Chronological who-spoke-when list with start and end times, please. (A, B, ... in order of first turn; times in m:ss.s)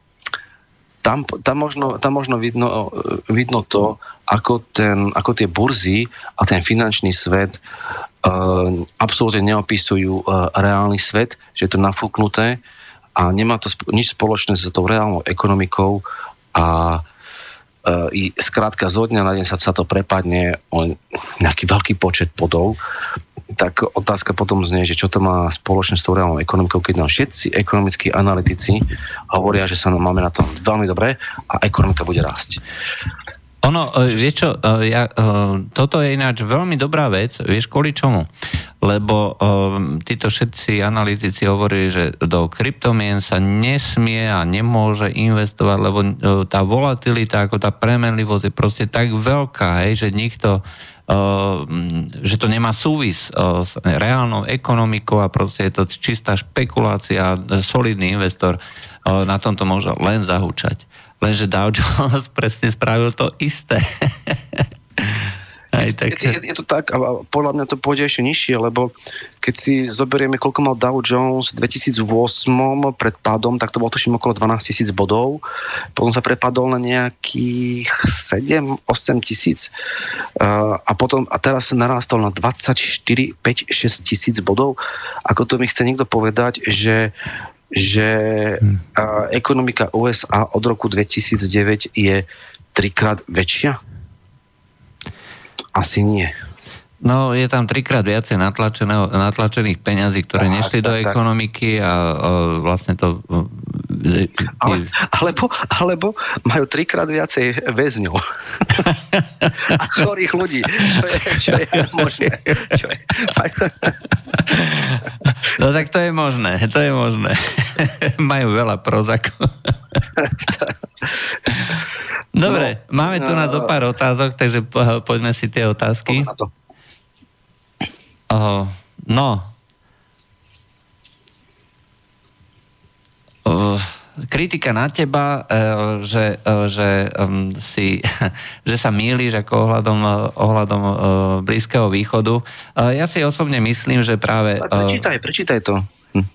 0:01.0-0:07.6 A
0:08.2-0:12.6 A
0:13.2-0:17.0 A
0:17.8-0:22.8 A
0:23.5-0:32.6 A
0:33.6-0:38.3 B
0:38.8-1:06.4 B
1:05.8-1:15.4 A
1:16.0-1:19.7 A
1:20.4-1:27.1 A
1:27.7-1:33.8 A
1:35.8-1:36.3 A
1:37.0-1:44.9 B
1:40.4-1:41.2 A
1:44.6-1:48.9 A
1:49.7-1:54.0 A
1:51.8-1:52.7 B
1:54.5-1:59.7 B
2:01.5-2:01.8 B
2:02.3-2:06.3 B
2:02.4-2:03.7 A
2:06.1-2:06.5 A
2:08.3-2:09.5 B
2:13.4-2:25.0 B
2:24.6-2:26.3 A